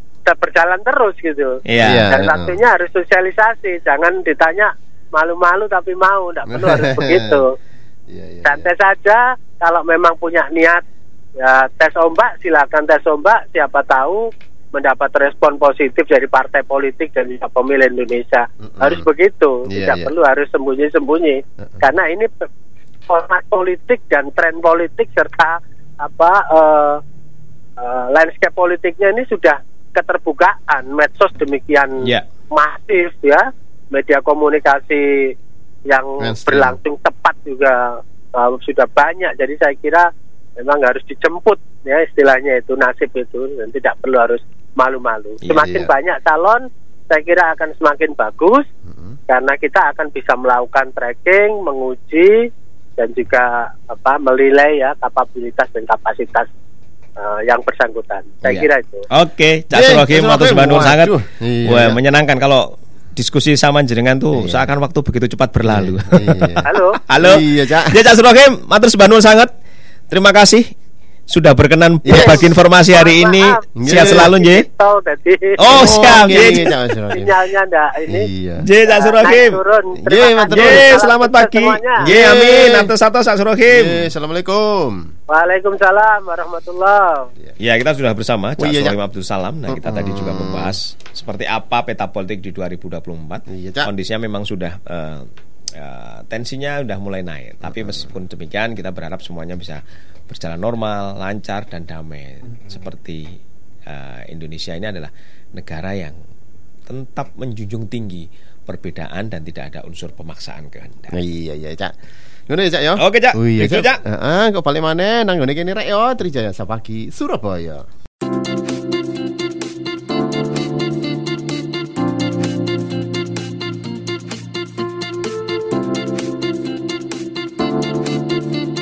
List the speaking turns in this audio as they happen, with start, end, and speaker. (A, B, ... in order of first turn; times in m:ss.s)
0:00.3-0:07.5 A
0:01.7-0:02.0 B
0:01.8-0:02.6 C
0:06.5-0:07.4 C
0:08.1-0:08.7 C
0:08.4-0:10.8 A
0:11.4-0:22.5 A
0:18.7-0:19.1 C
0:19.7-0:20.1 C
0:23.1-0:27.0 A
0:27.8-0:32.0 A
0:32.5-0:35.3 A
0:35.9-0:48.6 A
0:36.2-0:36.8 C
0:45.5-0:45.9 C
0:48.9-0:49.2 C
0:49.3-0:52.4 A
0:53.0-0:56.5 A
0:57.2-0:59.1 A
0:58.4-1:01.1 B
0:59.7-1:02.0 C
1:01.6-1:09.5 B
1:04.3-1:04.7 C
1:05.7-1:06.7 C
1:06.7-1:07.0 A
1:07.2-1:08.0 C
1:10.1-1:10.7 B
1:11.3-1:14.6 B
1:12.0-1:12.5 C
1:12.1-1:16.6 A
1:13.8-1:14.3 C
1:15.6-1:16.7 B
1:15.7-1:17.3 C
1:17.1-1:18.3 A
1:18.1-1:18.6 C
1:18.6-1:19.6 B
1:18.9-1:22.1 A
1:20.0-1:21.0 C
1:20.5-1:24.1 B
1:22.0-1:22.9 C
1:23.7-1:25.1 C
1:25.3-1:27.3 A
1:27.6-1:43.3 B
1:28.6-1:29.0 C
1:29.7-1:30.8 C
1:33.5-1:33.9 C
1:37.7-1:38.1 C
1:43.9-1:46.2 B
1:46.9-1:51.2 B
1:51.1-1:51.9 C
1:52.5-1:57.8 C
1:53.0-1:54.0 B